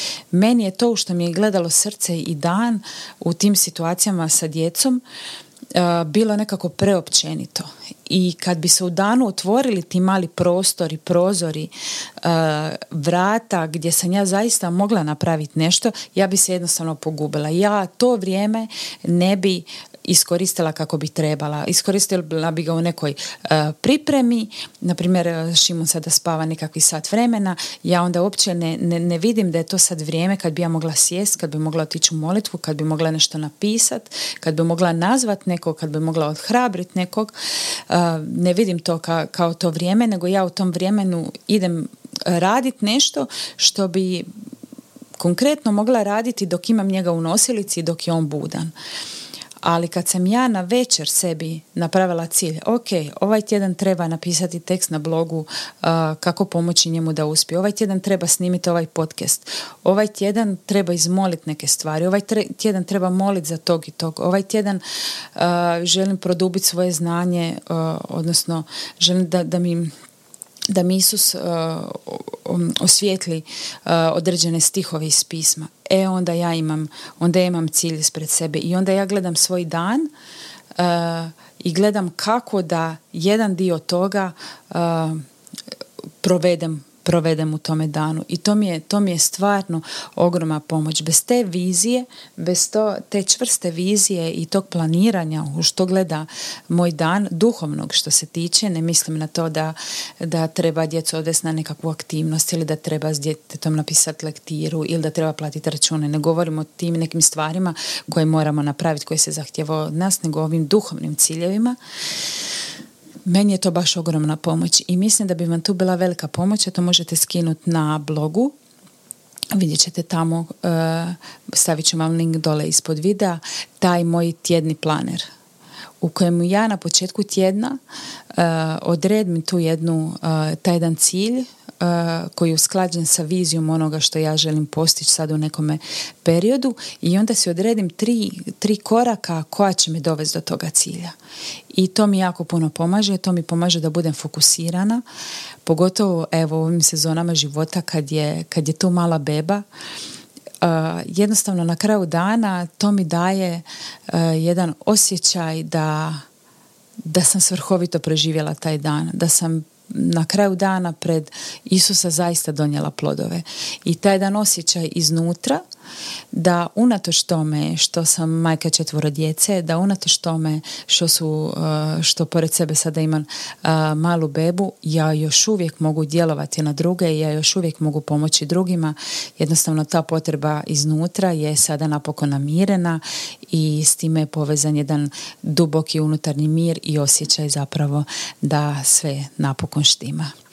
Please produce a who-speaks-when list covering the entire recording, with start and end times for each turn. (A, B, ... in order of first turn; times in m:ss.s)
0:00.3-0:05.0 A
0:05.7-0:37.3 A
0:37.9-0:44.3 A
0:45.2-0:48.7 A
0:49.6-1:04.8 A
1:05.4-1:09.9 A
1:10.7-1:20.1 A
1:20.8-1:25.2 A
1:26.2-1:51.8 A
1:53.2-1:58.5 A
1:59.5-2:05.3 A
2:06.0-2:07.8 A
2:08.3-2:21.1 A
2:21.7-2:25.0 A
2:25.7-2:29.6 A
2:30.6-2:36.2 A
2:37.0-2:45.6 A
2:46.3-3:10.3 A